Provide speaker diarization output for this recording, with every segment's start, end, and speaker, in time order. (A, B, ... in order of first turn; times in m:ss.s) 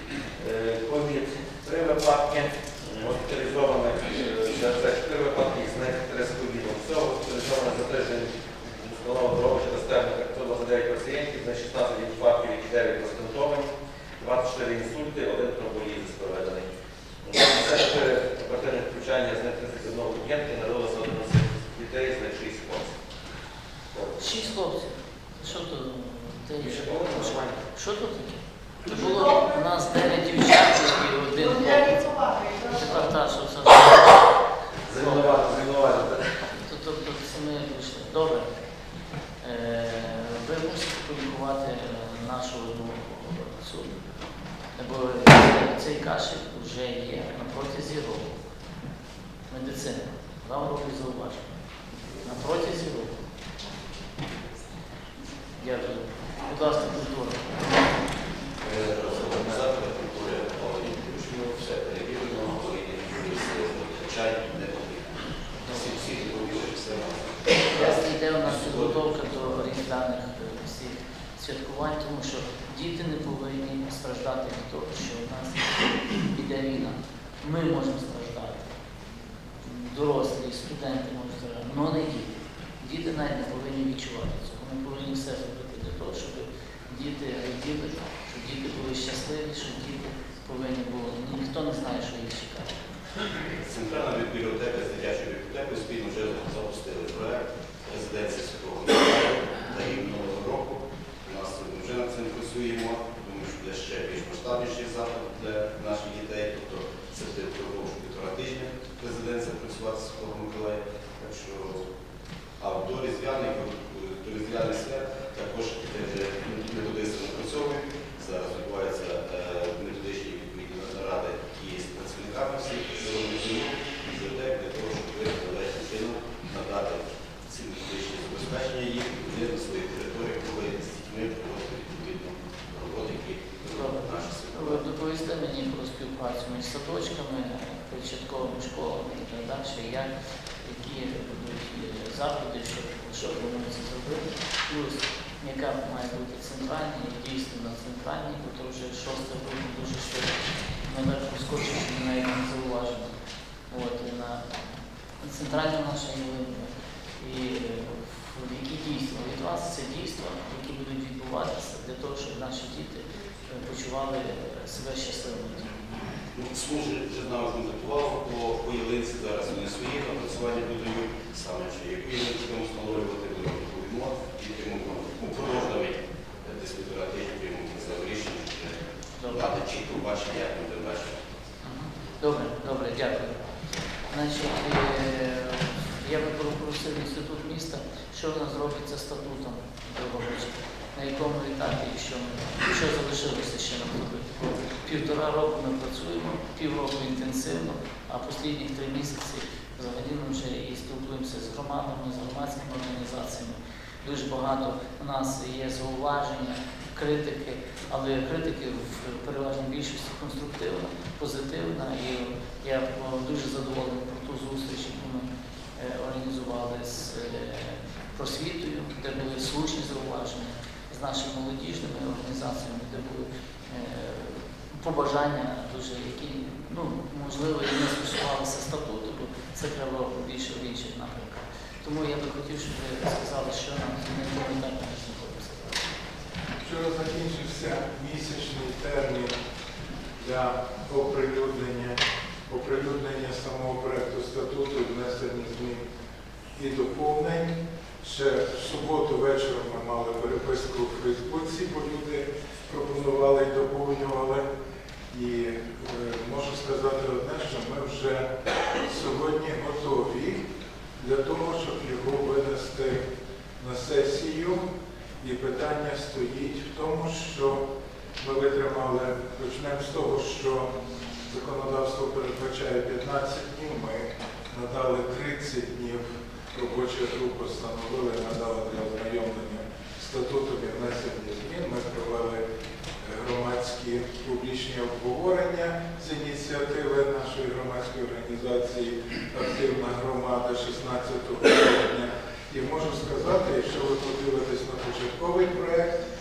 0:00.4-0:16.7 A
0:17.2-0:22.9 A
0:23.9-0:24.2 A
0:24.2-0:34.3 B
0:26.6-0:27.6 A
0:34.9-0:36.3 A
0:34.9-0:35.5 B
0:36.5-0:38.5 B
0:39.4-0:43.9 B
0:44.8-0:48.4 B
0:49.5-0:51.5 B
0:52.2-0:53.2 B
0:55.6-0:57.7 B
0:58.6-1:09.5 C
1:07.7-1:18.7 B
1:19.6-1:32.7 B
1:33.6-1:51.9 C
1:52.6-2:14.8 C
2:13.7-2:20.1 B
2:20.6-2:33.1 B
2:33.7-2:34.4 B
2:35.2-2:45.9 B
2:46.3-3:01.3 C
2:59.2-2:59.5 B
3:01.6-3:03.5 B
3:04.1-3:56.0 B
3:56.6-3:59.4 D
4:00.2-4:05.8 D
4:06.6-4:14.4 D
4:15.1-4:18.3 D
4:18.8-4:20.4 D
4:21.0-4:23.0 D
4:23.6-4:24.6 D
4:25.2-4:27.6 D
4:28.2-4:30.7 D
4:31.3-4:42.4 D
4:43.0-4:56.0 D